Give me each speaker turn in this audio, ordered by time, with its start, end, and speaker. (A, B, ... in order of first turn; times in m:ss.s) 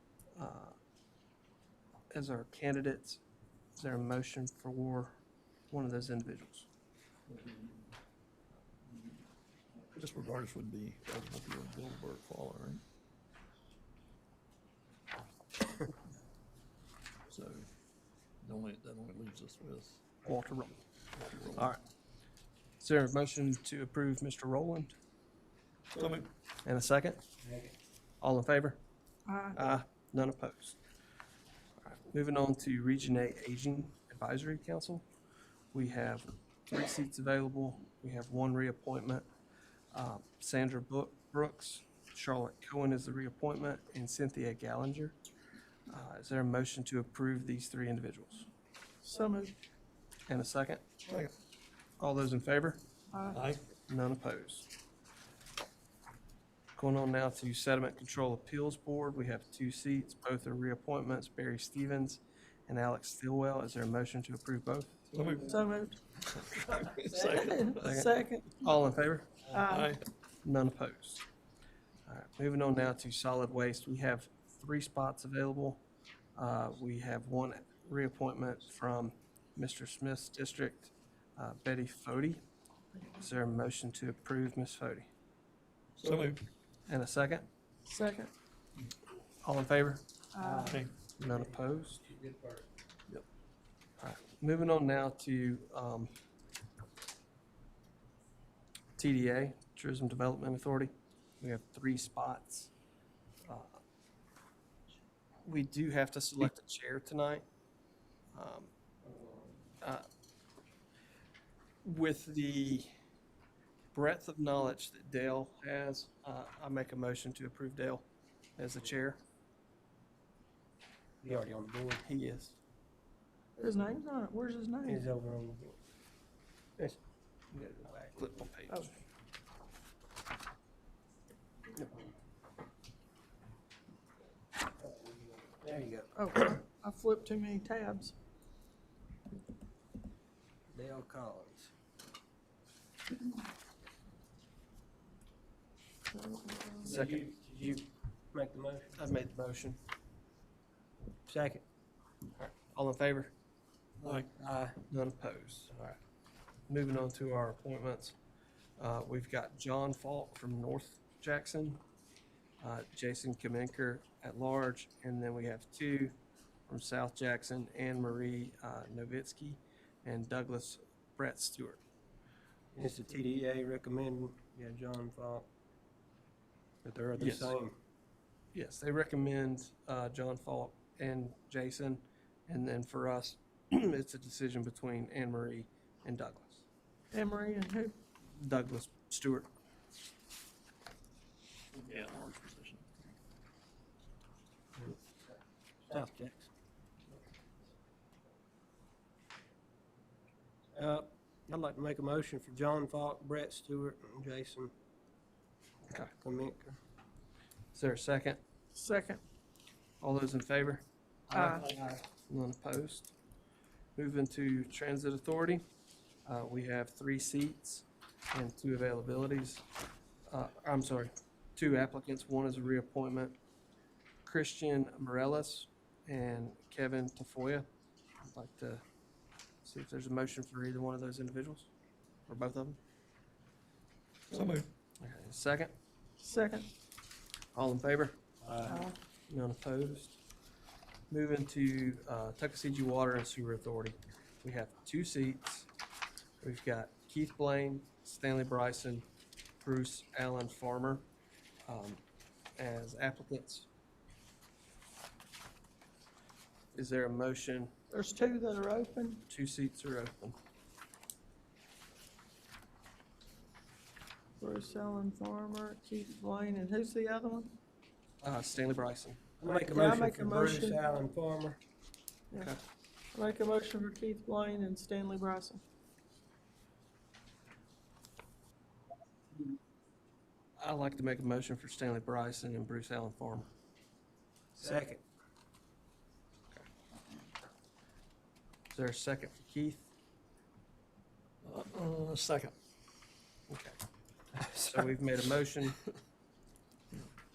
0:00.4-0:00.8 A
0:02.1-0:03.2 A
0:03.8-0:05.2 A
0:05.7-0:06.7 A
0:07.3-0:07.8 B
0:08.9-0:09.2 B
0:09.9-0:12.8 B
0:17.3-0:17.7 B
0:18.4-0:20.0 B
0:20.2-0:20.8 A
0:21.1-0:21.7 B
0:22.8-0:24.9 A
0:25.9-0:26.3 B
0:26.6-0:27.2 A
0:27.4-0:27.8 C
0:28.2-0:28.8 A
0:29.3-0:29.6 D
0:29.5-0:30.8 A
0:31.8-0:35.0 A
0:35.7-0:39.2 A
0:39.9-0:45.2 A
0:45.9-0:48.5 A
0:49.0-0:49.6 D
0:50.3-0:50.8 A
0:51.1-0:51.3 B
0:52.0-0:52.8 A
0:53.1-0:53.4 D
0:53.3-0:53.6 B
0:53.9-0:54.7 A
0:56.8-1:05.0 A
1:05.1-1:05.5 B
1:05.5-1:06.0 D
1:06.2-1:07.9 B
1:07.3-1:08.6 D
1:07.8-1:09.6 A
1:09.5-1:10.0 D
1:09.7-1:10.0 B
1:10.4-1:11.2 A
1:12.1-1:15.8 A
1:16.4-1:22.4 A
1:23.2-1:25.1 A
1:26.0-1:26.4 B
1:26.9-1:27.5 A
1:27.9-1:28.3 D
1:29.4-1:30.0 A
1:30.3-1:30.8 D
1:30.4-1:32.7 C
1:30.7-1:31.0 B
1:31.2-1:32.0 A
1:34.0-1:36.1 A
1:39.0-1:42.7 A
1:43.5-1:43.8 A
1:45.4-1:47.4 A
1:48.3-1:48.7 A
1:49.8-1:50.1 A
1:51.8-1:52.9 A
1:53.9-1:59.2 A
2:01.2-2:02.0 C
2:02.0-2:02.6 A
2:03.6-2:05.0 D
2:04.8-2:05.8 C
2:07.5-2:08.9 A
2:07.9-2:08.1 C
2:14.8-2:16.2 C
2:16.2-2:18.1 D
2:20.7-2:21.7 C
2:26.1-2:27.0 D
2:26.8-2:27.3 A
2:26.9-2:29.0 C
2:29.0-2:29.8 A
2:31.3-2:31.6 C
2:32.4-2:33.3 A
2:34.0-2:34.3 B
2:34.0-2:34.8 C
2:34.9-2:36.0 A
2:36.7-2:38.2 A
2:38.8-2:41.8 A
2:42.6-2:46.2 A
2:46.7-2:51.8 A
2:52.8-2:55.5 C
2:56.8-2:57.8 C
2:57.2-2:57.5 A
2:58.5-3:06.6 A
3:07.1-3:07.9 D
3:08.4-3:09.5 A
3:11.7-3:12.9 B
3:15.9-3:16.5 C
3:20.8-3:24.7 C
3:26.2-3:26.7 C
3:27.7-3:28.4 A
3:28.8-3:29.2 D
3:30.0-3:33.1 A
3:31.3-3:31.6 D
3:34.0-3:35.6 A
3:36.3-3:39.6 A
3:40.3-3:43.4 A
3:44.2-3:47.7 A
3:48.3-3:48.8 A
3:49.6-3:51.7 A
3:52.3-3:52.8 A
3:54.3-3:54.7 B
3:55.0-3:55.8 A
3:56.2-3:56.7 D
3:57.6-3:58.2 A
3:58.4-3:58.8 C
3:58.7-3:59.0 D
3:59.3-4:00.2 A
4:01.1-4:05.7 A
4:06.4-4:09.0 A
4:09.6-4:11.1 A
4:11.7-4:12.0 A
4:12.6-4:13.7 A
4:16.7-4:17.7 A
4:17.9-4:19.2 D
4:19.3-4:20.4 A
4:24.4-4:27.6 D
4:28.2-4:29.2 A
4:29.4-4:31.6 C
4:29.5-4:30.8 D
4:33.1-4:35.6 D
4:40.6-4:43.5 A
4:44.6-4:45.0 C
4:48.7-4:49.9 A
4:51.4-4:52.6 B
4:53.5-4:53.8 A
4:54.4-4:55.8 A